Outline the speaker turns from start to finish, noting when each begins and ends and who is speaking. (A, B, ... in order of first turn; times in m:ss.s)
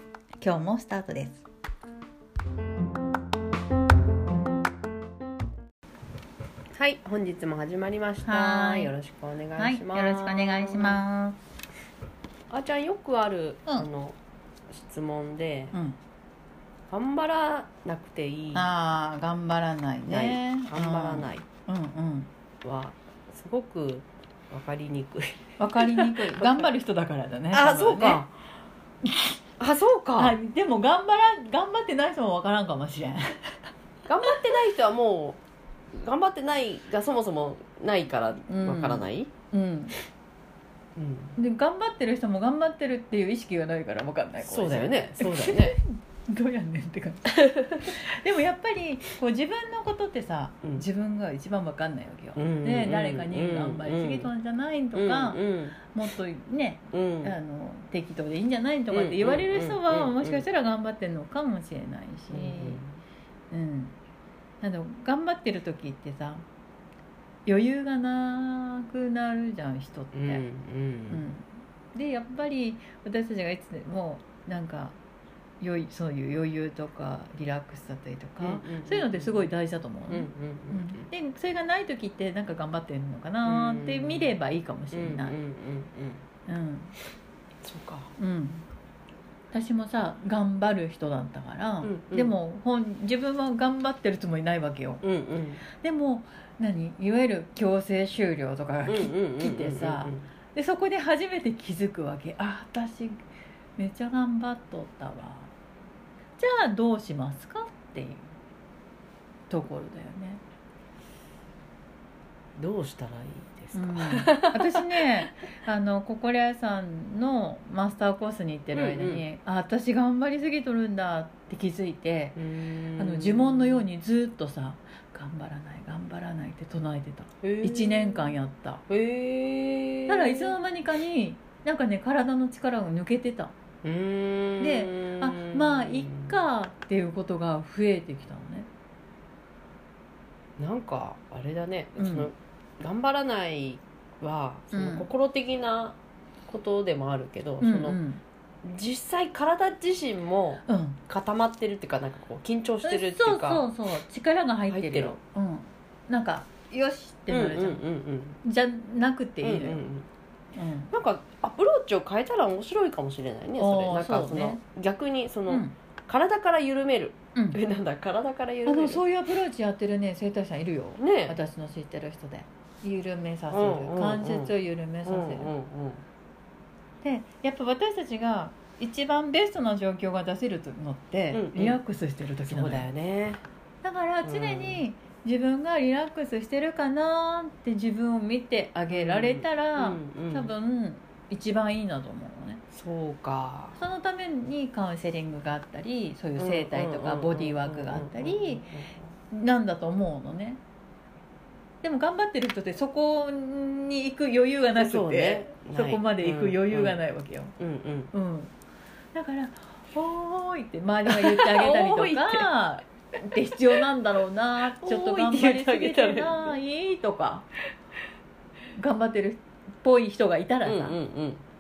0:00.4-0:01.4 A
0:06.8-0:11.0 B
0:08.2-0:08.9 A
0:09.6-0:11.4 A
0:12.5-0:14.2 B
0:14.7-0:15.8 B
0:15.7-0:16.0 A
0:16.9-0:18.7 B
0:18.5-0:22.3 A
0:20.1-0:21.4 B
0:22.6-0:26.6 B
0:25.6-0:28.2 A
0:27.5-0:28.3 B
0:29.0-0:29.3 A
0:29.6-0:30.4 B
0:30.2-0:33.7 A
0:34.1-0:35.4 B
0:35.9-0:39.3 B
0:38.5-0:40.0 A
0:41.0-0:41.4 B
0:41.4-1:02.8 A
0:44.4-0:45.8 B
0:47.3-0:48.0 B
0:52.4-0:54.3 B
0:55.0-0:55.8 B
0:56.9-0:57.4 B
0:58.9-1:00.4 B
1:02.3-1:03.0 B
1:03.5-1:04.0 A
1:04.6-1:06.4 A
1:07.5-1:10.4 A
1:10.1-1:11.2 B
1:11.1-1:15.0 A
1:15.6-1:25.4 A
1:18.4-1:19.5 B
1:20.1-1:21.1 B
1:23.4-1:24.3 B
1:24.9-1:26.2 B
1:26.5-1:27.0 A
1:27.6-1:28.1 B
1:28.2-1:28.7 A
1:29.5-1:35.0 A
1:31.8-1:32.3 B
1:35.0-1:35.6 B
1:35.7-1:43.2 A
1:38.9-1:40.3 B
1:43.8-1:45.5 A
1:46.4-1:48.3 A
1:49.5-1:50.4 A
1:52.6-1:55.0 B
1:53.7-2:02.4 A
1:58.7-1:59.2 B
2:02.4-2:03.9 B
2:03.0-2:08.8 A
2:07.4-2:08.4 B
2:08.9-2:10.6 B
2:10.1-2:13.5 A
2:13.8-2:16.4 B
2:14.6-2:18.7 A
2:20.6-2:26.0 B
2:22.0-2:22.3 A
2:24.7-2:25.1 A
2:26.5-2:28.0 B
2:27.6-2:28.2 A
2:28.6-2:33.7 B
2:30.7-2:31.0 A
2:32.8-2:37.8 A
2:34.7-2:35.2 B
2:37.3-2:38.4 B
2:38.4-2:39.9 A
2:39.4-2:40.1 B
2:40.6-2:40.9 A
2:40.9-2:49.0 B
2:43.6-2:44.6 A
2:45.5-2:45.7 A
2:48.7-2:55.5 A
2:51.0-2:51.4 B
2:53.5-2:54.5 B
2:55.0-2:56.0 B
2:57.0-3:02.9 A
3:01.3-3:01.8 B
3:02.5-3:03.4 B
3:03.8-3:12.6 A
3:04.2-3:04.8 B
3:08.9-3:10.5 B
3:12.7-3:13.8 B
3:13.8-3:18.7 A
3:16.4-3:19.0 B
3:19.3-3:20.6 A
3:21.8-3:27.6 A
3:24.8-3:27.0 B
3:27.6-3:28.1 B
3:28.1-3:28.5 A
3:29.1-3:37.5 A
3:31.1-3:32.5 B
3:33.6-3:33.8 B
3:34.6-3:36.6 B
3:38.7-3:41.0 A
3:40.6-3:41.4 B